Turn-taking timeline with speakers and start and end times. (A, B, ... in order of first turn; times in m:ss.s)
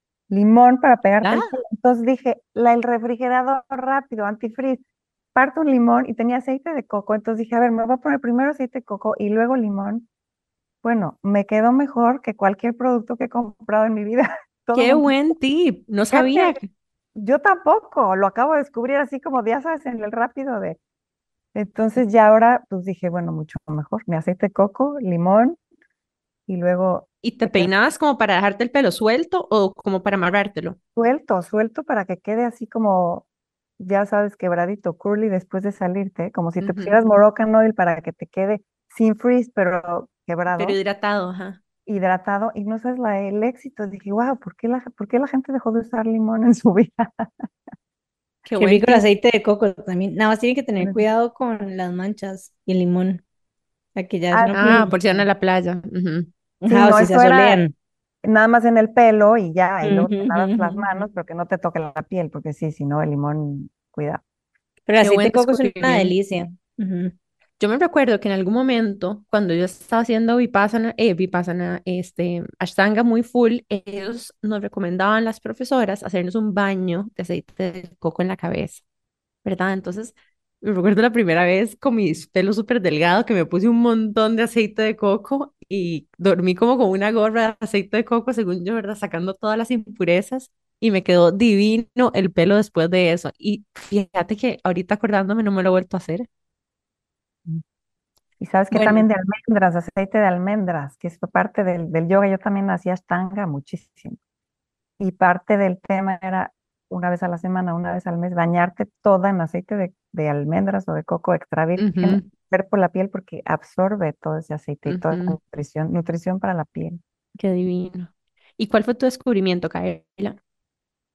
0:00.3-0:04.8 A
0:01.2-0:01.5 B
0:05.3-0:10.1 A
0:10.8-0:15.1 A
0:14.7-0:16.6 B
0:16.1-0:16.6 A
0:17.2-0:20.8 A
0:21.5-0:25.6 A
0:26.5-0:27.7 A
0:27.2-0:30.8 B
0:31.0-0:33.2 A
0:33.8-0:40.8 A
0:36.6-0:36.9 B
0:40.5-0:41.6 B
0:41.8-0:47.5 A
0:48.4-0:49.0 B
0:48.6-0:53.2 C
0:50.8-0:51.0 A
0:54.0-0:54.9 C
0:54.3-0:55.2 A
0:54.6-0:56.3 B
0:56.6-0:57.7 C
0:56.7-0:57.6 A
0:58.2-1:04.2 A
0:59.8-1:00.8 C
1:04.9-1:07.1 C
1:05.0-1:06.1 B
1:07.6-1:18.8 B
1:19.4-1:36.3 B
1:38.4-1:44.2 A
1:38.7-1:39.0 C
1:45.0-1:57.0 A
1:51.8-1:52.2 B
1:54.9-1:55.4 B
1:57.4-2:00.4 B